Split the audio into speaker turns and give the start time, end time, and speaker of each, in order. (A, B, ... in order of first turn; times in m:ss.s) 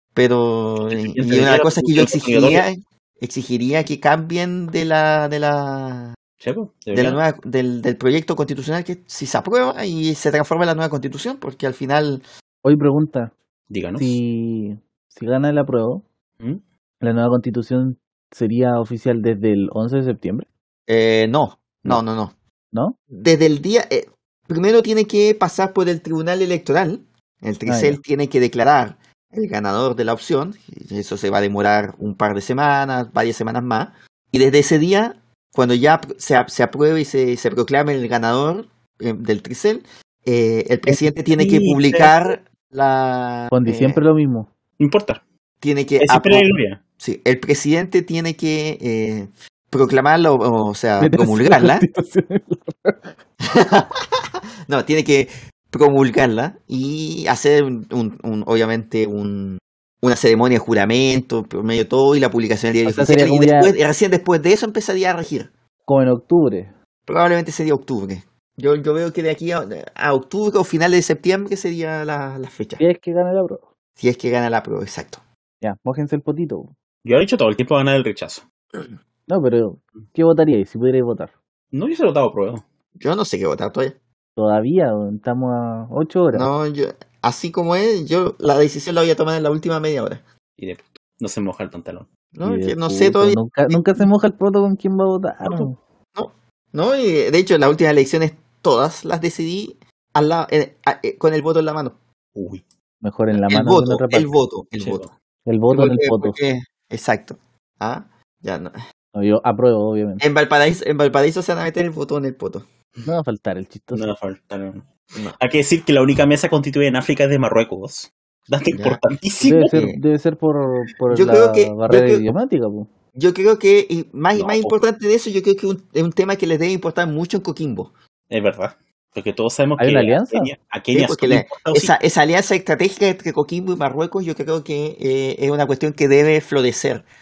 0:00.1-0:06.2 A
0:00.9-0:02.6 B
0:06.4-0:07.2 B
0:06.9-0:12.2 A
0:12.6-0:13.3 C
0:13.7-0:14.2 B
0:14.0-0:16.0 C
0:17.0-0:20.5 C
0:20.9-0:22.3 A
0:23.1-0:44.0 A
0:27.6-0:28.0 C
0:41.4-0:42.2 B
0:43.5-0:44.5 C
0:44.8-0:45.2 B
0:45.6-0:51.9 A
0:46.0-0:46.8 B
0:51.0-0:53.1 C
0:53.4-0:54.0 A
0:54.7-1:05.5 A
1:02.8-1:03.8 C
1:05.9-1:06.7 C
1:07.1-1:12.8 A
1:12.8-1:13.7 C
1:14.0-1:15.2 A
1:15.6-1:16.7 C
1:17.0-1:18.4 B
1:19.3-1:21.3 C
1:21.7-1:22.6 B
1:23.0-1:24.0 A
1:24.4-1:26.5 C
1:26.3-1:30.2 A
1:30.6-1:32.1 B
1:32.3-1:34.1 A
1:32.4-1:35.8 C
1:35.4-1:42.0 A
1:42.4-1:42.6 B
1:43.0-1:44.3 C
1:43.5-1:45.0 A
1:44.8-1:45.1 B
1:45.4-1:46.4 C
1:45.7-1:48.7 A
1:49.1-1:50.2 C
1:50.2-1:52.6 A
1:53.0-1:54.1 C
1:53.9-1:59.8 B
1:58.7-1:59.0 A
1:59.4-2:02.9 C
1:59.7-2:00.0 A
2:01.1-2:02.3 A
2:03.1-2:07.9 A
2:04.4-2:04.8 B
2:08.3-2:11.9 B
2:09.8-2:10.5 C
2:10.9-2:17.0 A